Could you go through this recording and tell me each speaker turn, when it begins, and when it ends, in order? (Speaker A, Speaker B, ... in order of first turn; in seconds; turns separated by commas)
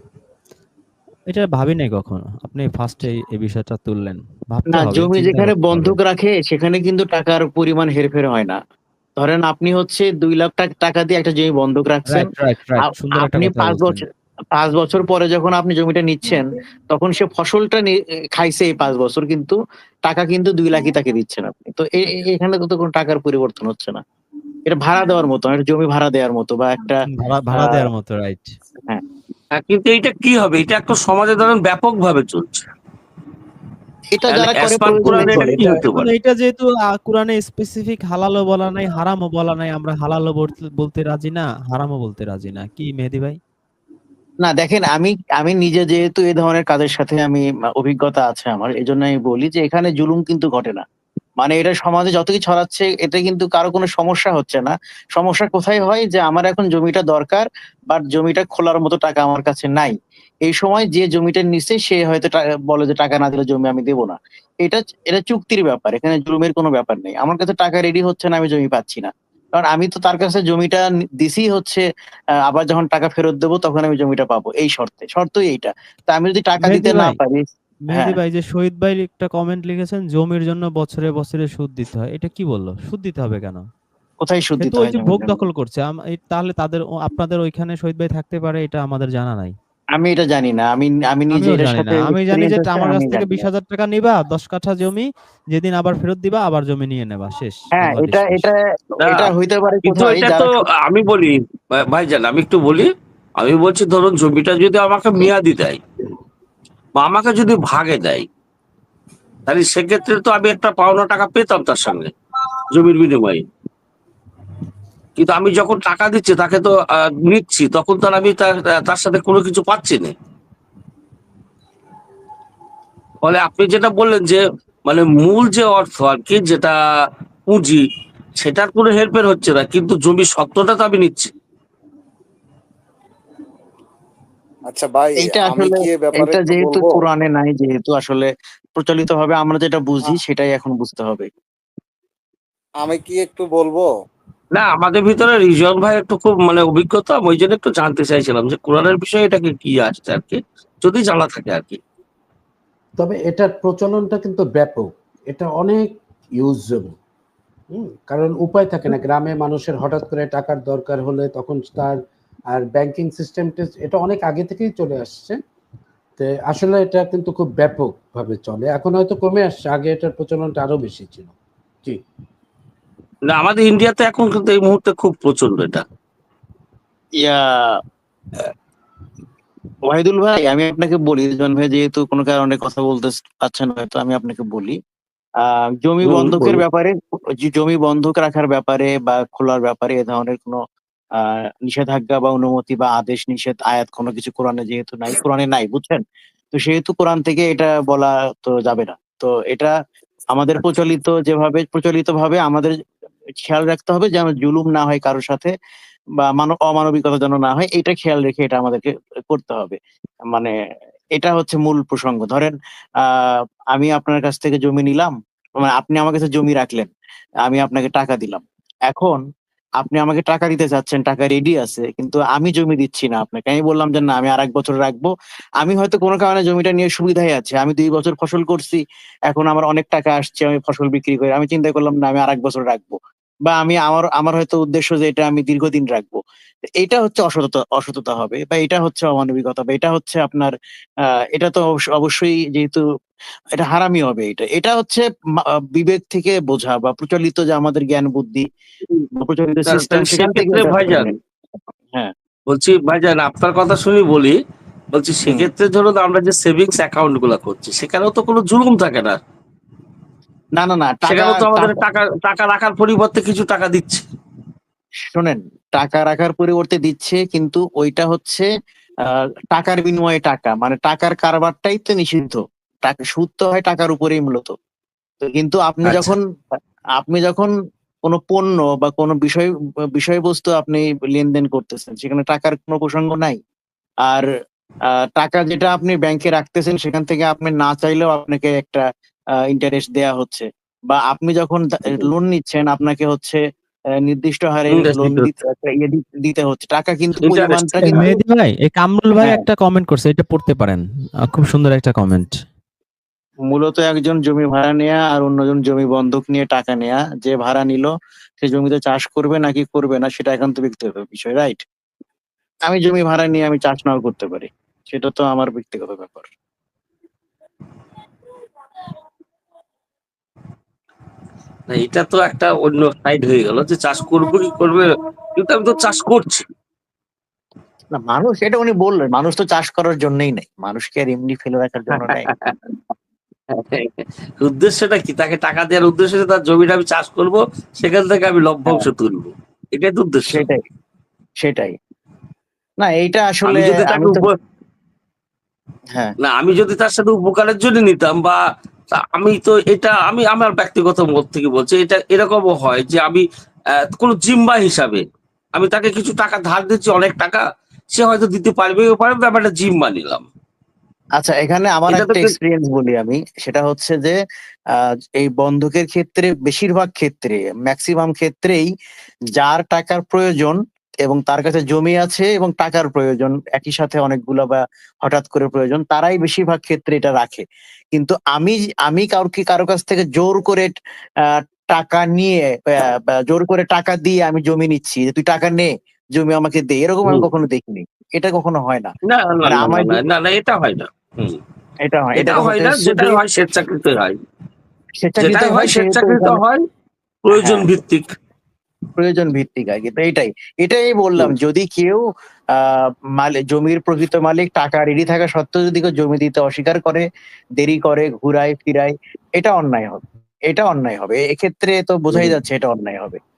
Speaker A: 1.3-6.0, Speaker B: 4.7-8.6, Speaker B: 9.2-12.3, Speaker A: 12.1-14.0, Speaker B: 13.1-14.0, Speaker B: 14.6-19.6, Speaker B: 20.1-24.0, Speaker B: 24.6-27.0, Speaker A: 27.1-28.5, Speaker B: 27.6-27.8, Speaker C: 29.6-32.7, Speaker B: 34.1-35.7, Speaker C: 34.3-36.1, Speaker A: 35.1-43.4, Speaker B: 44.4-50.8, Speaker B: 51.4-59.9, Speaker B: 60.5-71.8, Speaker B: 72.5-78.1, Speaker A: 76.6-77.2, Speaker A: 77.9-83.6, Speaker B: 84.2-85.4, Speaker A: 84.6-89.5, Speaker B: 90.0-93.5, Speaker A: 91.3-98.5, Speaker B: 97.8-100.6, Speaker C: 99.0-99.3, Speaker C: 99.8-105.8, Speaker C: 107.0-108.2, Speaker C: 109.5-112.1, Speaker C: 112.7-113.4, Speaker C: 115.2-120.1, Speaker C: 123.2-126.7, Speaker C: 127.5-127.8, Speaker C: 128.4-131.3, Speaker D: 134.7-137.1, Speaker B: 135.2-141.3, Speaker D: 142.8-143.9, Speaker C: 144.5-151.8, Speaker E: 153.0-156.9, Speaker E: 157.7-162.0, Speaker E: 162.5-165.4, Speaker E: 166.2-171.3, Speaker C: 173.3-175.8, Speaker B: 177.2-177.8, Speaker B: 179.9-184.8, Speaker B: 185.4-190.6, Speaker C: 186.0-186.6, Speaker B: 191.2-196.0, Speaker B: 196.5-199.7, Speaker B: 200.3-202.7, Speaker B: 203.4-205.5, Speaker B: 206.2-209.8, Speaker B: 211.1-216.9, Speaker B: 217.4-219.2, Speaker B: 219.8-236.2, Speaker B: 236.8-240.5, Speaker B: 241.3-242.8, Speaker B: 243.5-245.0, Speaker B: 245.7-248.5, Speaker B: 249.2-251.2, Speaker C: 249.7-251.1, Speaker C: 252.5-254.4, Speaker C: 254.9-259.2, Speaker B: 255.2-255.5, Speaker B: 260.6-261.8, Speaker C: 261.1-264.0, Speaker B: 265.1-268.5, Speaker B: 269.1-274.5, Speaker B: 275.2-276.2, Speaker C: 275.8-276.1, Speaker B: 277.0-277.5, Speaker B: 278.0-283.4, Speaker B: 285.1-288.8, Speaker B: 289.5-293.4, Speaker B: 294.0-298.1, Speaker C: 294.7-295.3, Speaker C: 297.2-298.0, Speaker A: 297.8-302.4, Speaker B: 303.5-311.6, Speaker B: 312.7-316.3, Speaker C: 321.7-326.4, Speaker B: 327.9-332.3, Speaker C: 331.9-332.5, Speaker C: 333.5-340.5, Speaker B: 340.3-340.6, Speaker B: 341.4-341.8, Speaker B: 342.8-344.2, Speaker C: 343.4-344.4, Speaker C: 346.2-348.4, Speaker C: 348.9-353.2, Speaker C: 353.9-360.2, Speaker B: 361.2-364.1, Speaker C: 361.9-362.3, Speaker B: 364.8-368.7, Speaker B: 369.3-377.4, Speaker B: 377.9-380.7, Speaker B: 381.3-390.0, Speaker C: 389.1-391.4, Speaker B: 391.8-393.2, Speaker C: 392.1-394.2, Speaker B: 395.0-396.4, Speaker C: 395.2-396.6, Speaker C: 397.2-398.1, Speaker B: 397.3-397.7, Speaker B: 398.9-407.0, Speaker B: 407.6-413.2